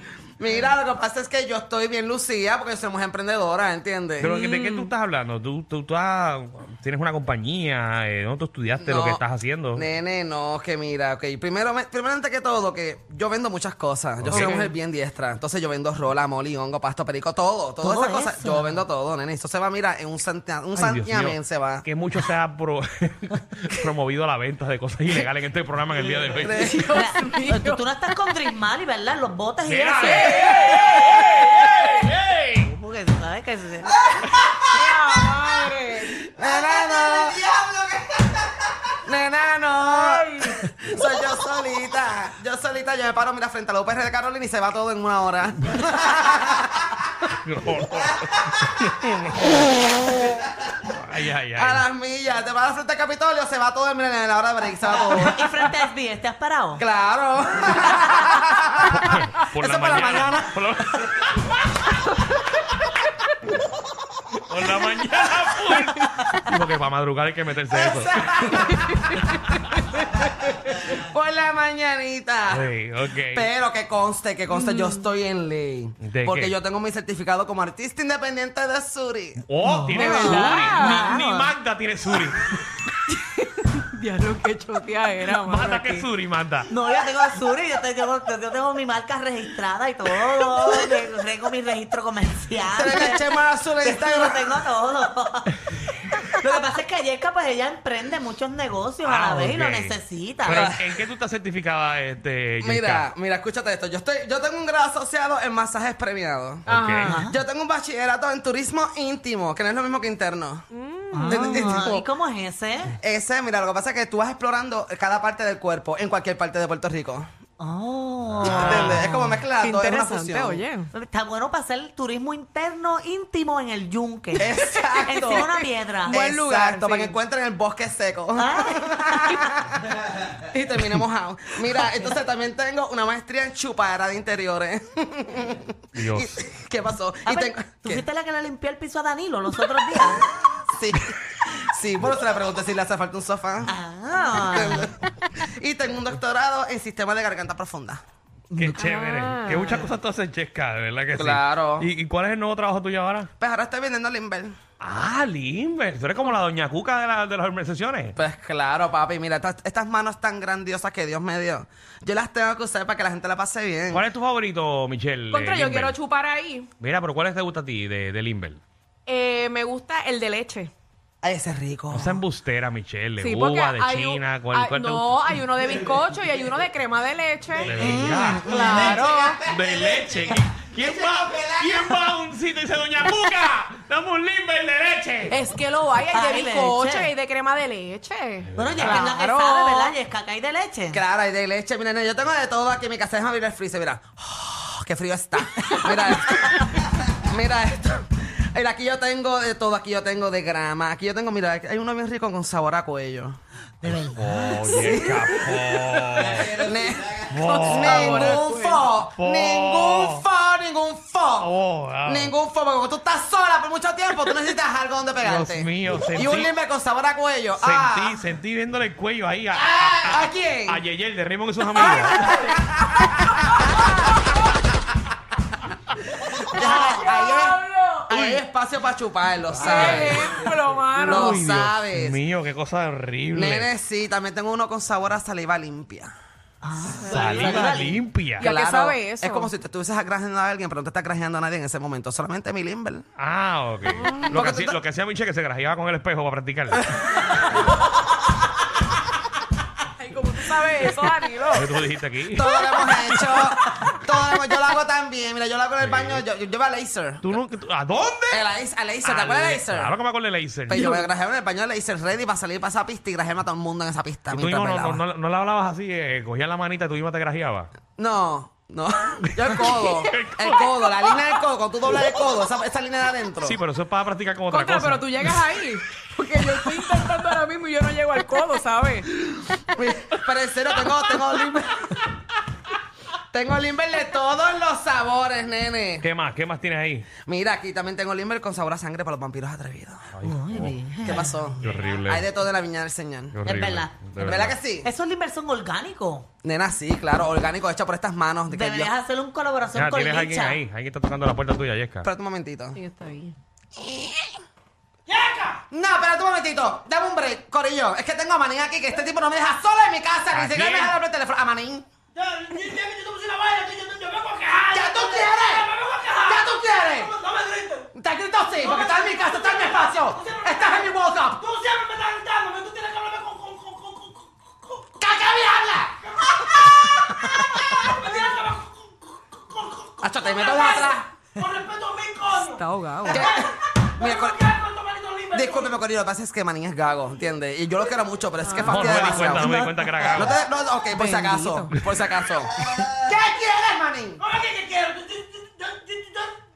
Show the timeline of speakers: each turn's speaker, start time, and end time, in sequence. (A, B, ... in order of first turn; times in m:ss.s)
0:00.4-0:04.3 A
0:04.2-0:09.8 B
0:04.3-0:04.9 C
0:08.8-0:09.2 A
0:09.7-0:21.8 A
0:14.2-0:14.6 B
0:14.3-0:14.7 C
0:17.8-0:18.8 D
0:20.7-0:26.8 B
0:26.2-0:28.4 C
0:26.3-0:26.8 A
0:26.9-0:30.4 D
0:29.6-0:32.7 B
0:30.0-0:31.5 C
0:32.6-0:34.2 D
0:34.3-0:35.7 A
0:34.7-0:36.1 C
0:36.3-0:38.4 A
0:39.0-0:47.0 A
0:39.8-0:40.6 C
0:47.2-0:49.9 B
0:50.2-0:50.7 A
0:50.8-0:51.8 B
0:51.5-0:55.5 A
0:54.9-0:56.8 D
0:56.8-1:00.5 A
0:57.8-0:58.2 D
0:58.9-1:01.6 B
1:04.4-1:08.6 B
1:07.7-1:09.3 A
1:08.7-1:10.0 C
1:10.9-1:12.7 A
1:12.5-1:13.5 B
1:13.3-1:19.4 A
1:14.5-1:15.0 C
1:16.0-1:16.5 B
1:19.5-1:22.7 B
1:19.6-1:21.5 D
1:19.7-1:21.1 C
1:23.1-1:26.1 C
1:25.2-1:26.7 B
1:26.7-1:40.7 D
1:32.7-1:34.5 A
1:39.0-1:43.1 B
1:40.5-1:40.8 A
1:42.6-1:46.7 A
1:46.6-1:47.2 B
1:46.7-1:47.2 C
1:47.0-1:47.4 D
1:47.2-1:50.6 A
1:50.7-1:51.8 C
1:51.1-1:52.9 D
1:51.2-1:52.1 A
1:53.0-1:57.3 A
1:57.6-1:59.4 D
1:58.3-1:58.8 B
1:58.4-2:00.6 A
1:58.7-1:59.0 C
1:59.5-2:00.9 C
2:00.9-2:06.2 D
2:04.3-2:18.0 A
2:04.6-2:05.5 C
2:06.1-2:07.2 C
2:08.4-2:09.4 D
2:15.9-2:16.5 B
2:17.2-2:20.3 D
2:20.7-2:23.7 A
2:23.7-2:24.9 D
2:24.5-2:28.0 A
2:28.5-2:28.8 D
2:28.5-2:33.3 B
2:28.8-2:29.8 C
2:31.1-2:31.9 A
2:33.4-2:34.6 A
2:34.8-2:38.2 B
2:38.2-2:44.0 A
2:43.9-2:46.0 B
2:45.3-2:46.7 C
2:46.8-2:48.6 B
2:49.0-2:50.7 C
2:51.2-2:52.2 A
2:51.9-2:55.4 B
2:53.2-2:57.8 C
2:57.6-3:05.4 B
2:57.8-3:02.0 A
2:57.9-2:58.3 D
2:58.4-2:59.4 C
3:05.3-3:10.0 C
3:06.1-3:07.1 D
3:08.5-3:09.1 B
3:08.6-3:11.0 D
3:10.9-3:23.4 A
3:15.9-3:16.4 C
3:23.8-3:25.1 D
3:23.8-3:26.6 B
3:24.8-3:25.5 A
3:25.3-3:26.7 C
3:26.1-3:31.5 A
3:27.3-3:28.4 B
3:27.3-3:28.9 C
3:27.8-3:28.5 D
3:29.1-3:30.2 B
3:31.4-3:32.3 B
3:32.0-3:38.2 A
3:35.2-3:36.5 B
3:37.6-3:42.5 B
3:39.5-3:40.8 A
3:41.8-3:42.5 C
3:42.1-3:44.0 A
3:43.1-3:44.0 C
3:46.3-3:50.5 A
3:46.5-3:48.4 C
3:49.5-3:51.4 C
3:49.6-3:53.7 B
3:51.0-3:52.2 A
3:53.3-3:56.1 A
3:56.6-3:58.0 D
3:57.0-3:58.5 B
3:58.4-3:59.5 C
3:58.4-4:03.0 A
4:03.2-4:07.2 B
4:03.9-4:04.4 C
4:04.1-4:04.8 A
4:10.0-4:11.8 C
4:11.5-4:13.8 B
4:12.3-4:17.4 A
4:15.8-4:16.2 B
4:17.2-4:18.5 B
4:18.3-4:19.9 A
4:19.0-4:21.0 B
4:20.7-4:25.0 A
4:20.7-4:21.0 C
4:24.3-4:27.7 B
4:28.0-4:33.6 A
4:29.3-4:31.4 B
4:33.4-4:35.6 B
4:34.5-4:39.1 C
4:36.6-4:37.2 B
4:39.7-4:42.0 A
4:40.7-4:41.2 B
4:43.3-4:46.1 A
4:46.0-4:47.1 B
4:47.2-4:50.1 A
4:50.1-4:52.3 B
4:50.2-4:51.7 D
4:51.0-4:53.4 A
4:53.3-4:54.6 B
4:53.4-4:54.0 D
4:54.2-4:54.9 A
4:54.8-4:56.3 D
4:56.4-4:58.9 A
4:58.5-5:00.6 D
4:59.7-5:02.1 B
5:02.0-5:02.8 A
5:02.7-5:03.4 C
5:03.8-5:04.3 A
5:05.1-5:05.6 E
5:05.7-5:11.8 A
5:10.3-5:10.9 B
5:12.1-5:17.9 E
5:14.7-5:15.7 A
5:16.2-5:17.1 A
5:17.9-5:21.4 A
5:18.6-5:25.0 E
5:25.0-5:26.0 A
5:26.0-5:26.3 E
5:26.7-5:27.9 A
5:27.8-5:35.8 E
5:30.0-5:31.1 A
5:32.3-5:33.3 C
5:33.1-5:34.4 A
5:35.3-5:44.2 A
5:38.4-5:39.7 C
5:38.6-5:40.4 B
5:39.5-5:40.2 D
5:40.9-5:41.8 C
5:44.2-5:46.3 E